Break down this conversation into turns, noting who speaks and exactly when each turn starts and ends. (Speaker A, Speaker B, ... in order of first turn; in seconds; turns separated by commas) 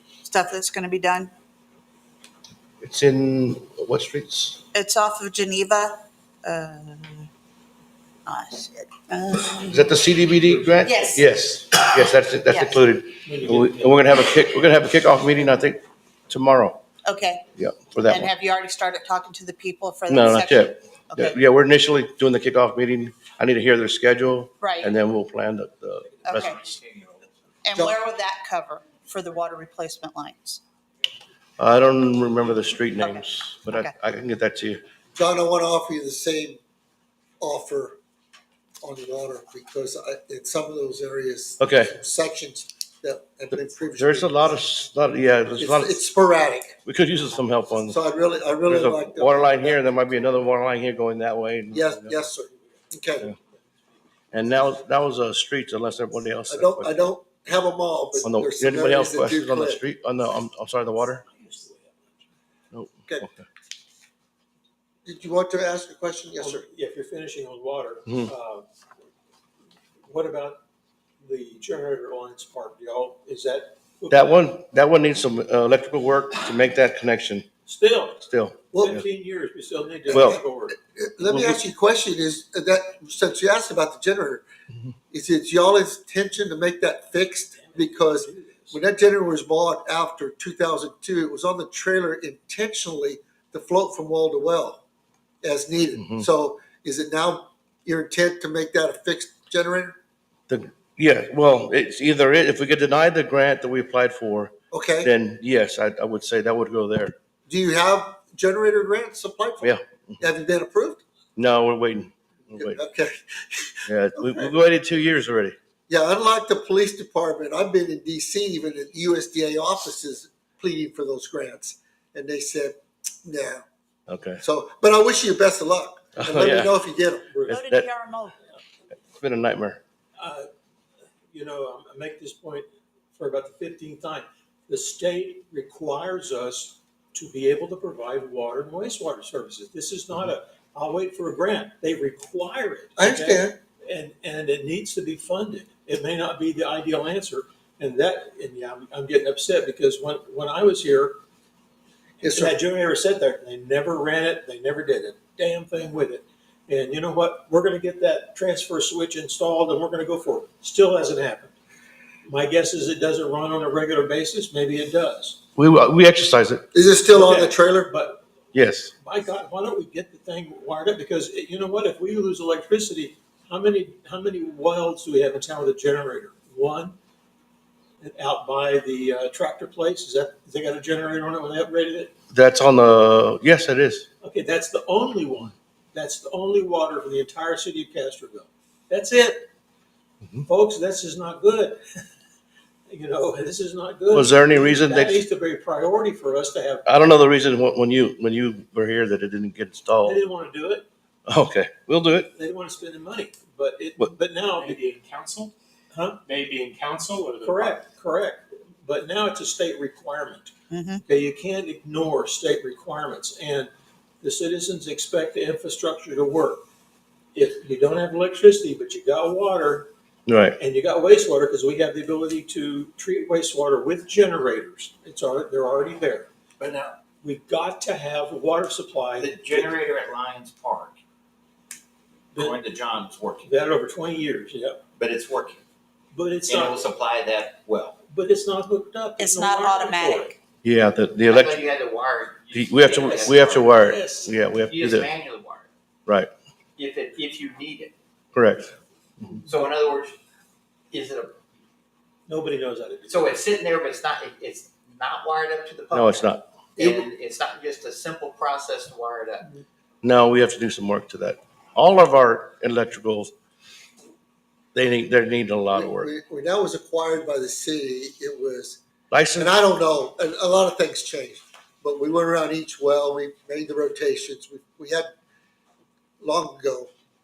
Speaker A: 0.2-1.3, Speaker B: 2.8-4.6, Speaker A: 4.7-7.3, Speaker A: 8.3-9.9, Speaker B: 9.7-16.8, Speaker A: 10.8-11.3, Speaker A: 12.5-12.8, Speaker C: 13.2-14.0, Speaker A: 17.0-17.4, Speaker B: 17.6-18.3, Speaker A: 18.1-21.4, Speaker B: 20.1-26.7, Speaker A: 24.6-24.9, Speaker A: 26.2-26.7, Speaker A: 27.6-30.6, Speaker B: 31.6-34.8, Speaker A: 33.0-33.9, Speaker D: 35.1-36.6, Speaker D: 37.4-38.0, Speaker D: 38.8-44.6, Speaker B: 41.6-41.9, Speaker B: 44.0-46.0, Speaker D: 45.6-46.8, Speaker B: 46.9-48.0, Speaker D: 47.9-49.8, Speaker B: 48.6-52.3, Speaker D: 51.7-53.3, Speaker B: 54.3-56.9, Speaker D: 56.5-59.8, Speaker B: 58.2-61.2, Speaker C: 61.3-62.0, Speaker B: 62.7-63.5, Speaker D: 65.0-66.6, Speaker C: 66.4-68.7, Speaker C: 70.1-70.6, Speaker C: 71.2-74.4, Speaker B: 74.1-77.5, Speaker C: 77.7-78.2, Speaker B: 78.2-79.0, Speaker D: 78.7-79.0, Speaker C: 78.8-80.8, Speaker D: 80.1-80.4, Speaker B: 80.1-80.4, Speaker D: 80.9-84.5, Speaker B: 81.3-81.6, Speaker D: 85.1-94.8, Speaker C: 87.6-88.7, Speaker D: 95.4-100.0, Speaker B: 100.5-107.1, Speaker D: 104.7-105.1, Speaker D: 107.5-111.0, Speaker B: 109.6-110.2, Speaker B: 111.4-112.8, Speaker D: 112.6-114.5, Speaker B: 113.9-115.6, Speaker D: 115.9-123.6, Speaker B: 124.1-124.4, Speaker D: 124.4-127.3, Speaker B: 126.2-126.7, Speaker C: 127.3-127.6, Speaker B: 127.5-127.9, Speaker A: 127.5-128.4, Speaker B: 129.2-129.8, Speaker C: 130.2-130.5, Speaker C: 131.3-151.2, Speaker D: 143.0-143.6, Speaker D: 152.2-152.6, Speaker C: 152.2-161.6, Speaker C: 162.3-165.4, Speaker B: 165.6-166.7, Speaker D: 166.7-167.9, Speaker C: 167.1-168.2, Speaker B: 168.5-168.9, Speaker C: 169.0-177.0, Speaker C: 178.0-182.1, Speaker B: 182.3-184.1, Speaker C: 184.2-189.5, Speaker C: 190.4-191.8, Speaker C: 192.9-196.8, Speaker B: 194.1-195.2, Speaker B: 196.9-200.2, Speaker C: 200.0-200.9, Speaker B: 201.3-202.3, Speaker C: 202.4-204.8, Speaker E: 204.5-205.5, Speaker C: 205.9-206.2, Speaker E: 206.3-207.8, Speaker C: 207.4-210.5, Speaker A: 210.7-211.0, Speaker C: 211.1-213.7, Speaker C: 214.2-216.7, Speaker C: 217.3-219.9, Speaker B: 220.3-220.6, Speaker C: 220.6-226.3, Speaker C: 227.2-229.8, Speaker F: 229.2-230.9, Speaker C: 232.3-232.6, Speaker F: 232.4-233.4, Speaker C: 233.4-234.8, Speaker F: 235.0-235.6, Speaker C: 236.1-236.9, Speaker F: 236.5-237.9, Speaker C: 238.1-240.4, Speaker A: 239.2-240.3, Speaker B: 240.6-241.7, Speaker F: 241.2-243.8, Speaker B: 242.5-245.1, Speaker C: 243.7-244.3, Speaker F: 244.6-245.7, Speaker F: 246.8-247.9, Speaker B: 248.3-248.7, Speaker F: 249.4-250.2, Speaker F: 250.9-251.3, Speaker C: 252.3-253.4, Speaker F: 253.1-259.5, Speaker B: 255.9-256.4, Speaker B: 260.0-263.3, Speaker B: 264.7-266.1, Speaker D: 265.7-268.8, Speaker B: 269.1-269.5, Speaker D: 269.4-275.1, Speaker D: 276.2-276.9